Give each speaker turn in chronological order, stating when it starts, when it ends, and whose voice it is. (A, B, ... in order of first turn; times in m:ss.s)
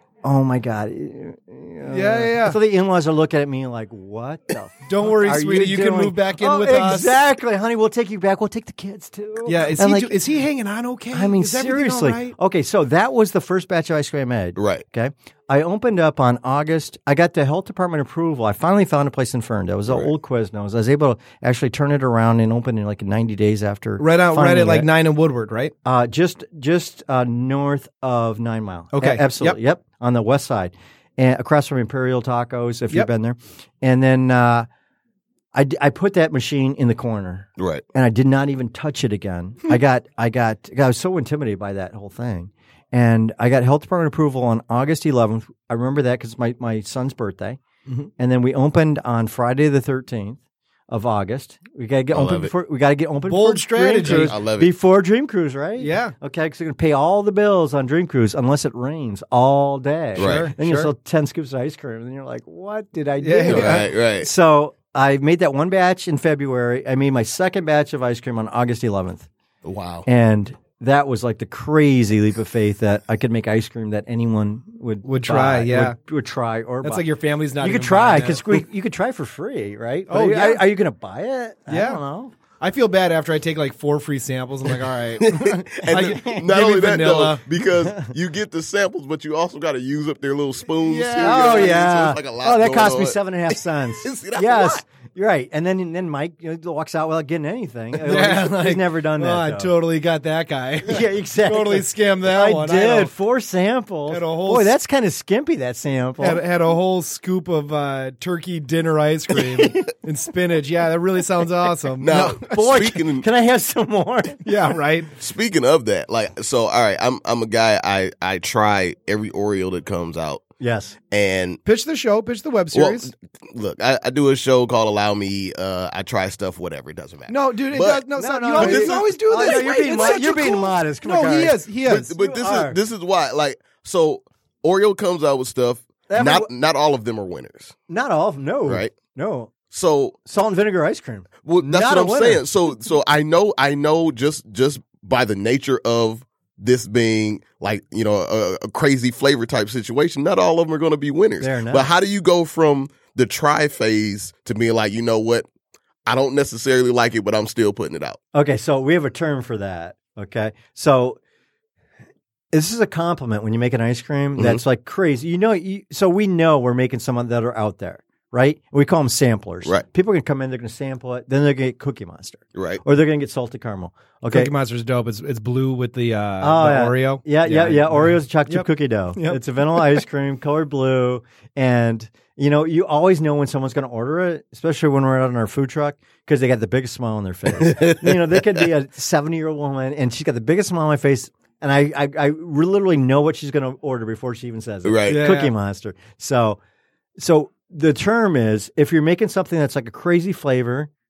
0:00.2-0:10.2 A
0:01.8-0:02.6 B
0:04.8-0:07.2 B
0:09.4-0:12.4 B
0:11.1-0:24.9 A
0:14.6-0:14.8 C
0:24.0-0:25.7 B
0:25.8-0:34.7 A
0:28.9-0:29.6 B
0:35.5-0:47.6 A
0:37.6-0:37.8 C
0:48.2-1:09.3 A
0:52.1-0:52.5 C
0:53.3-0:54.4 B
0:54.0-0:54.7 C
0:55.8-0:56.1 B
1:00.1-1:00.9 B
1:00.2-1:00.5 C
1:03.2-1:03.9 B
1:03.5-1:04.3 C
1:09.6-1:10.0 C
1:10.0-1:17.0 A
1:15.0-1:16.0 B
1:16.8-1:18.6 B
1:17.6-1:22.3 A
1:20.1-1:20.7 B
1:21.7-1:22.0 B
1:22.6-1:27.4 B
1:25.2-1:34.8 C
1:30.8-1:31.8 B
1:31.2-1:39.7 A
1:38.0-1:43.1 B
1:40.8-1:46.4 A
1:44.1-1:44.7 B
1:46.2-1:52.4 B
1:52.0-1:53.3 C
1:52.4-1:54.5 A
1:54.4-1:55.1 B
1:55.2-2:00.4 C
2:00.6-2:01.0 A
2:01.1-2:01.6 C
2:01.6-2:03.1 B
2:02.7-2:10.1 C
2:07.3-2:12.1 B
2:08.2-2:12.8 A
2:11.9-2:17.7 C
2:16.1-2:16.5 A
2:17.9-2:19.5 A
2:18.7-2:18.9 C
2:19.7-2:20.2 C
2:20.2-2:22.4 A
2:21.4-2:35.5 C
2:31.4-2:31.9 A
2:36.0-2:38.2 C
2:38.3-2:41.2 A
2:42.5-2:54.5 A
2:44.4-2:44.6 C
2:52.5-2:52.8 C
2:54.3-2:59.8 B
2:56.4-3:16.6 A
3:07.6-3:08.4 C
3:14.8-3:15.2 C
3:15.1-3:15.5 B
3:17.2-3:20.9 A